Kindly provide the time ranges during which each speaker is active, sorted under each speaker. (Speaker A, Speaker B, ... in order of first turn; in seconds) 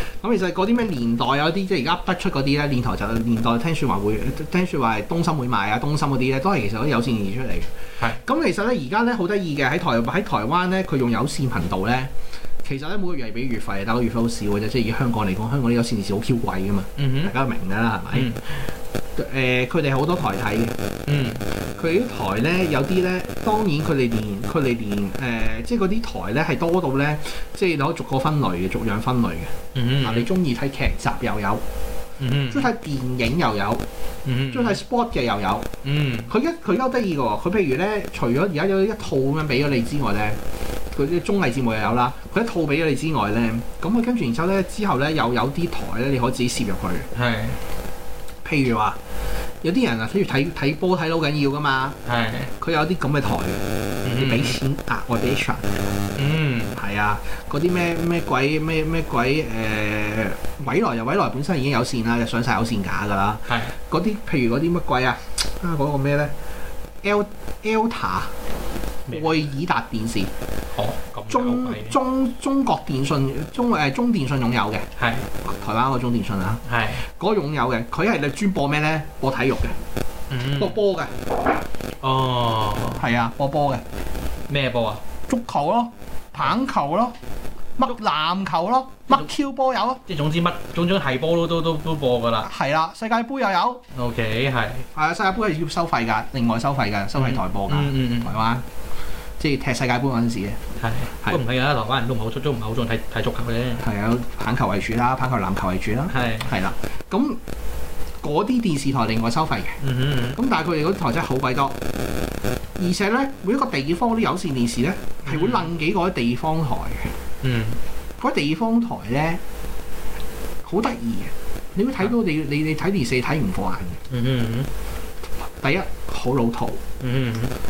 Speaker A: 0.2-12.1, 12.6-18.4, 19.1-20.8, 21.5-31.6, 32.5-33.8, 34.5-35.7, 36.3-40.4, 40.9-47.1, 48.4-49.0, 49.6-52.0, 52.6-56.0, 56.7-66.3, 67.0-68.3, 69.1-70.3, 71.3-74.8, 75.4-79.8, 80.6-81.1, 83.0-83.8, 85.3-87.2, 87.8-90.0, 92.4-93.8, 94.9-98.6, 99.4-100.6, 103.8-107.4, 108.2-109.8, 110.3-111.8, 112.8-117.1, 118.2-119.4, 120.6-124.0, 125.6-126.8
Speaker B: 17.0-17.3, 18.1-18.4, 21.1-21.4, 29.7-30.3, 32.2-32.7, 34.2-34.8, 35.8-36.3, 47.1-47.6, 52.0-52.5, 54.0-54.5, 56.1-56.8, 63.5-63.7, 70.7-71.9, 75.0-75.3, 76.6-77.0, 80.3-80.7, 82.0-83.0, 84.5-85.0, 90.0-92.5, 93.9-94.8, 97.1-98.4, 100.8-103.8, 106.1-106.5, 109.8-110.4, 115.2-115.7, 117.4-117.8, 124.1-124.7, 127.0-127.5